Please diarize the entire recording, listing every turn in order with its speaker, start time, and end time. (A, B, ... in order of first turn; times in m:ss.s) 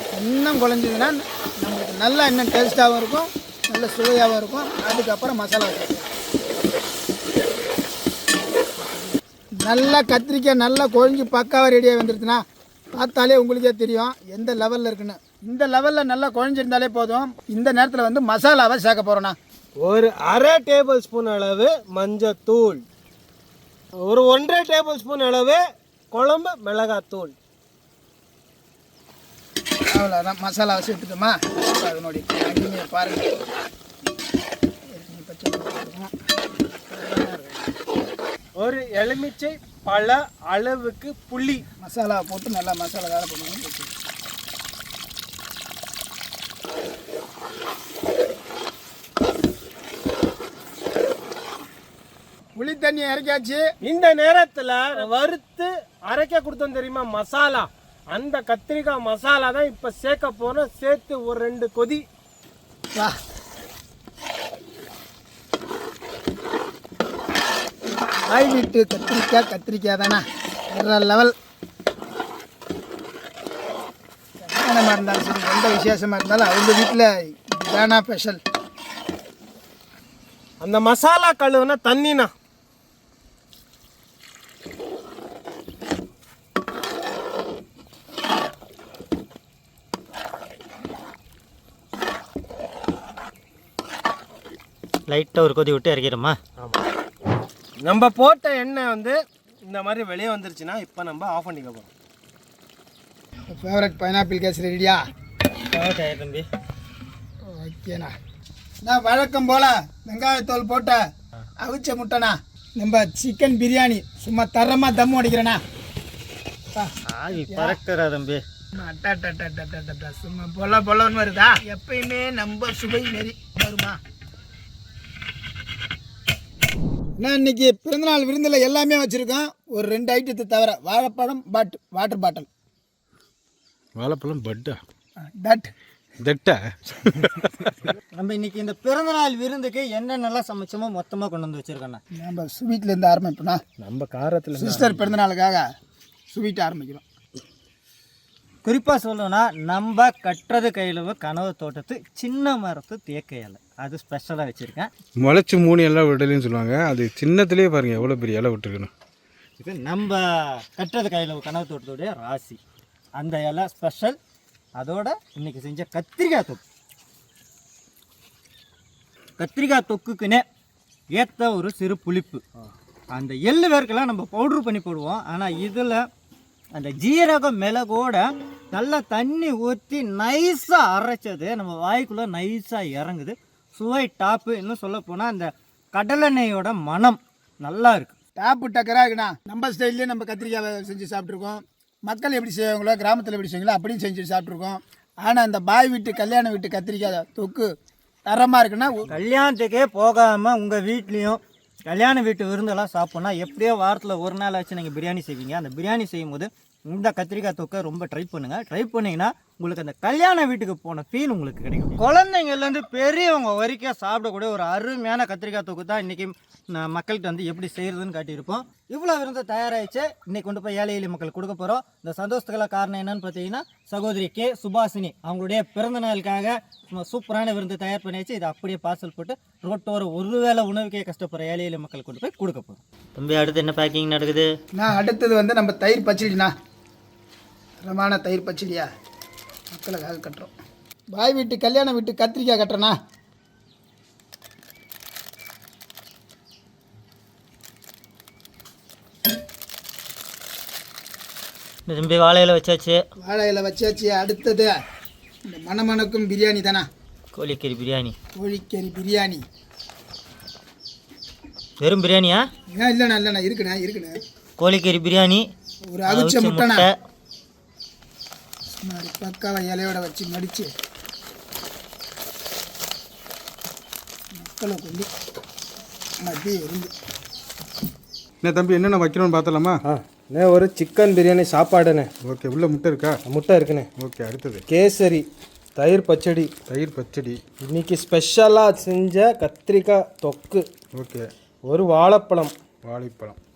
0:00.2-0:06.1 A
0:09.6-0:12.4 A
0:12.9-0:19.4 A
0:19.8-0:22.8 B
0:24.0-0:25.6 B
0:26.1-0:27.3 B
0:29.9-0:33.4 A
0:34.9-0:36.1 A
0:36.9-0:37.6 A
0:38.6-0:41.6 B
0:41.8-0:43.9 A
0:52.6-0:53.6 A
0:53.8-1:02.0 B
1:08.3-1:11.3 A
1:14.4-1:18.4 A
1:20.6-1:22.3 B
1:35.1-1:36.4 C
1:37.8-1:41.9 B
1:43.5-1:45.0 A
1:45.7-1:46.5 C
1:47.5-1:48.1 A
1:48.8-1:51.0 A
1:51.6-1:55.6 A
1:56.8-1:57.8 A
1:57.1-1:58.4 C
1:58.8-2:04.0 A
2:07.2-2:12.5 A
2:14.0-2:14.8 D
2:15.4-2:15.7 A
2:16.2-2:17.9 D
2:18.1-2:22.0 C
2:22.2-2:23.6 A
2:23.8-2:25.1 B
2:24.5-2:25.6 A
2:26.3-2:27.0 A
2:28.6-2:34.9 C
2:35.2-2:38.9 D
2:39.6-2:42.6 C
2:43.2-2:44.2 C
2:44.8-2:46.6 C
2:49.4-2:50.4 C
2:51.1-2:52.4 C
2:53.1-2:56.0 C
2:56.7-3:08.1 C
3:08.4-3:17.7 A
3:18.3-3:19.1 A
3:19.1-3:54.5 C
3:54.8-3:56.5 A
3:57.8-3:58.9 A
3:59.7-4:00.5 A
4:01.1-4:02.9 A
4:11.9-4:13.0 C
4:13.2-4:14.7 A
4:15.5-4:16.8 A
4:17.3-4:18.1 C
4:18.4-4:19.4 A
4:21.8-4:22.4 C
4:22.7-4:24.2 A
4:24.6-4:25.5 C
4:25.9-4:26.9 A
4:26.1-4:26.9 C
4:28.8-4:30.7 A
4:34.4-4:35.1 A
4:36.2-4:36.9 A
4:38.4-4:39.8 D
4:39.8-4:42.1 B
4:42.2-4:43.2 D
4:43.3-4:43.9 B
4:44.0-4:44.6 D
4:44.7-4:46.6 B
4:46.6-4:47.4 D
4:47.6-4:50.6 B
4:51.0-4:51.3 D
4:51.7-4:52.5 B
4:52.8-4:53.4 D